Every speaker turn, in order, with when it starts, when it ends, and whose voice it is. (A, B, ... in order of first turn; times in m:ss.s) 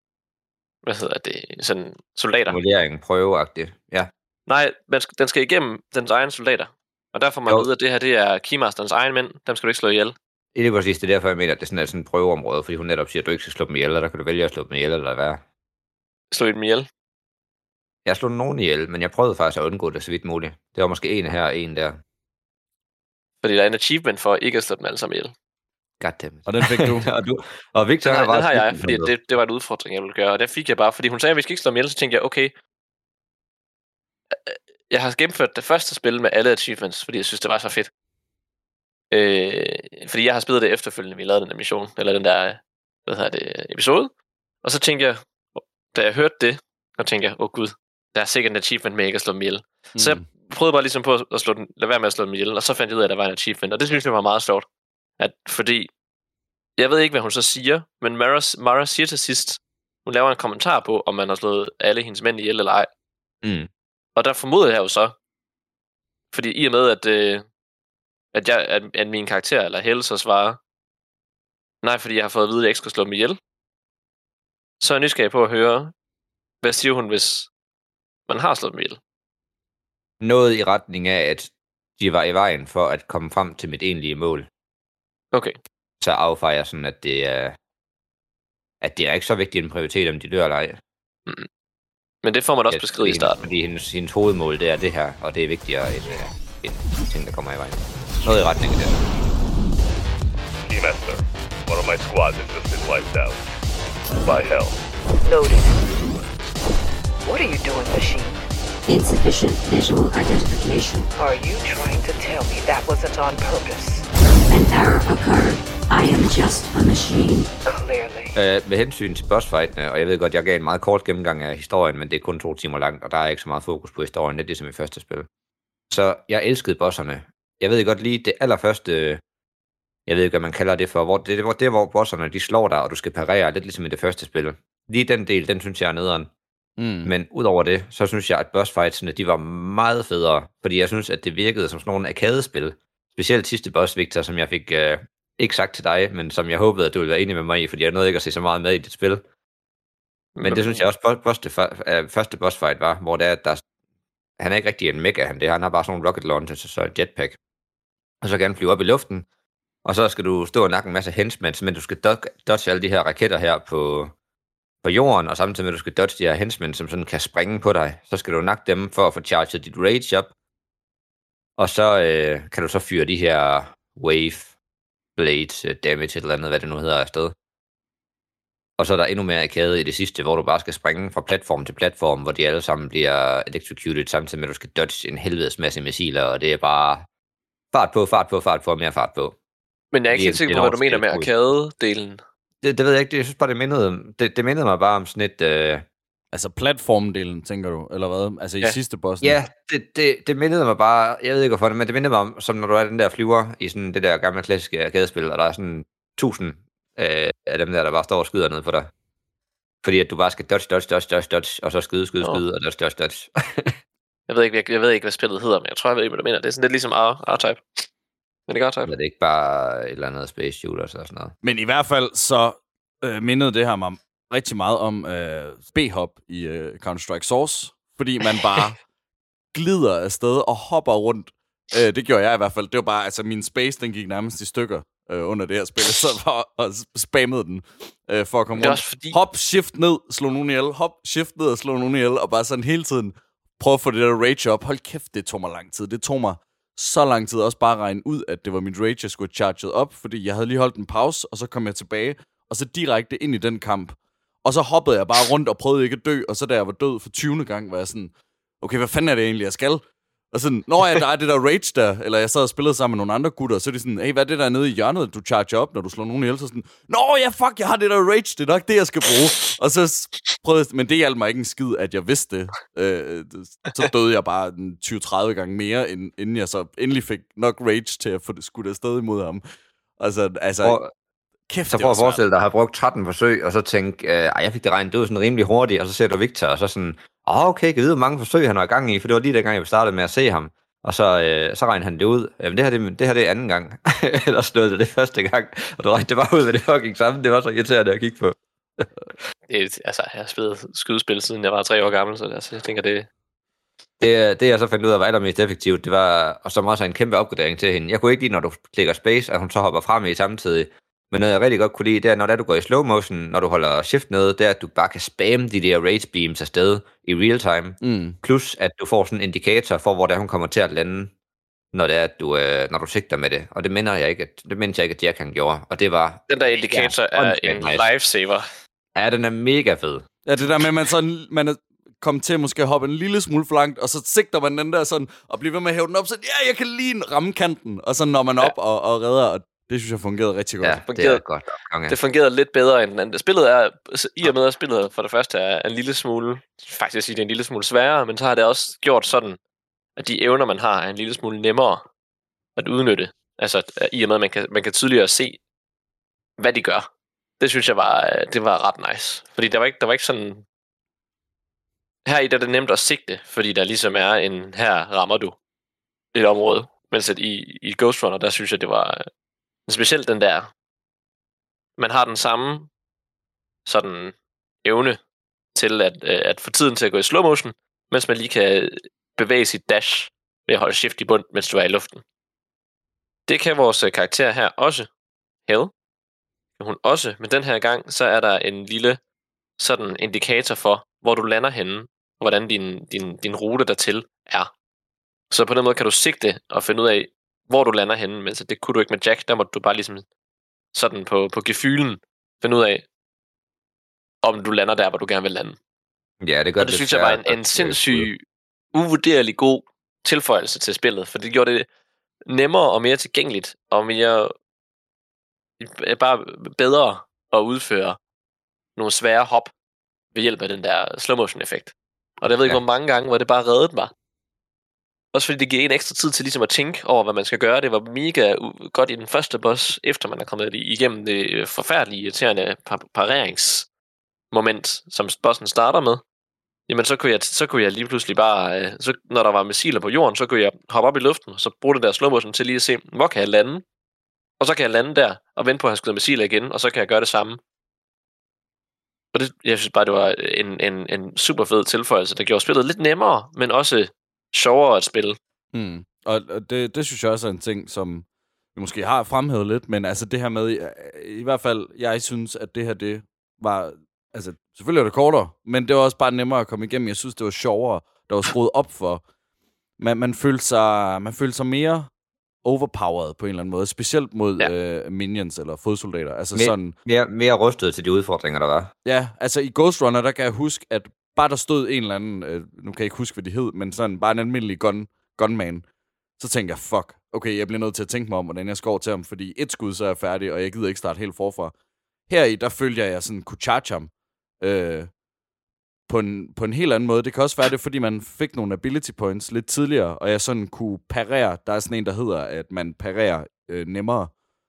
0:00.8-0:02.6 A
0:02.5-0:04.1 B
0:04.5-0:10.2 A
0:10.6-0:15.4 B
0:16.3-0:16.9 A
0:18.0-0:22.0 B
0:23.4-0:25.3 A
0:26.0-0:29.1 B
0:26.5-0:27.1 C
0:28.0-0:32.5 A
0:34.3-0:37.9 A
0:39.1-0:44.1 A
0:44.6-0:54.7 A
0:50.0-0:50.3 C
0:55.2-0:55.9 A
0:56.8-1:02.9 A
1:03.4-1:03.7 B
1:04.2-1:05.2 A
1:06.3-1:07.4 A
1:08.3-1:10.6 A
1:11.8-1:13.4 A
1:14.8-1:15.9 A
1:16.6-1:17.5 A
1:18.3-1:19.0 A
1:20.2-1:24.5 B
1:26.0-1:27.6 B
1:28.8-1:30.8 B
1:32.2-1:33.5 A
1:32.7-1:39.0 B
1:40.7-1:43.4 D
1:44.2-1:44.8 D
1:45.2-1:45.8 E
1:47.2-1:48.4 E
1:48.9-1:51.1 F
1:51.2-1:54.1 E
1:54.5-1:57.5 F
1:57.7-1:58.4 E
1:58.4-2:05.3 B
2:05.9-2:09.2 B
2:10.1-2:16.3 B
2:16.8-2:17.1 C
2:17.0-2:29.2 B
2:30.4-2:30.8 A
2:30.4-2:33.6 B
2:34.4-2:37.4 B
2:38.2-2:39.3 B
2:39.8-2:44.1 B
2:44.8-2:50.3 B
2:51.6-2:54.5 B
2:55.2-2:57.3 B
2:58.8-3:07.1 B
3:07.7-3:09.4 B
3:09.9-3:12.2 A
3:10.1-3:11.3 B
3:12.6-3:15.8 B
3:16.3-3:19.4 C
3:19.2-3:28.9 B
3:29.8-3:33.7 B
3:34.3-3:37.9 A
3:38.5-3:38.9 A
3:38.9-3:41.3 B
3:41.4-3:48.8 C
3:49.5-4:39.4 C
3:58.6-3:59.2 A
4:40.0-4:40.8 C
4:40.6-4:40.9 B
4:41.5-4:42.2 C
4:41.7-4:58.9 B
4:59.5-5:03.1 A
5:04.0-5:21.1 B
5:17.8-5:18.2 C
5:21.7-5:27.9 B
5:26.3-5:28.4 A
5:29.0-5:30.0 B
5:30.3-5:40.8 C
5:40.6-5:42.0 B
5:40.9-5:41.2 A
5:41.9-5:49.4 A
5:50.0-5:51.8 A
5:52.6-5:55.4 A
5:56.4-5:56.9 A
5:57.4-6:00.4 A
6:02.1-6:05.4 A
6:06.1-6:09.0 A
6:09.7-6:10.5 A
6:11.8-6:12.7 A
6:13.7-6:15.0 A
6:15.5-6:22.0 A
6:23.3-6:24.9 A
6:25.5-6:25.7 A
6:26.6-6:29.0 A
6:29.6-6:34.5 A
6:35.3-6:40.1 A
6:40.7-6:42.8 A
6:44.2-6:45.6 A
6:46.2-6:48.1 B
6:46.6-6:48.2 A
6:48.7-6:51.7 A
6:52.3-6:54.3 A
6:55.6-6:58.0 A
6:58.8-6:59.5 A
7:00.1-7:03.9 A
7:05.1-7:13.7 A
7:14.3-7:16.0 A
7:16.7-7:23.6 A
7:24.4-7:27.4 A
7:29.1-7:35.2 A
7:35.5-7:49.0 C
7:49.8-7:51.9 C
7:52.4-7:56.7 C
7:56.3-7:58.7 B
7:58.8-8:05.7 C
8:06.2-8:11.5 C
8:12.1-8:14.9 C
8:15.9-8:24.1 C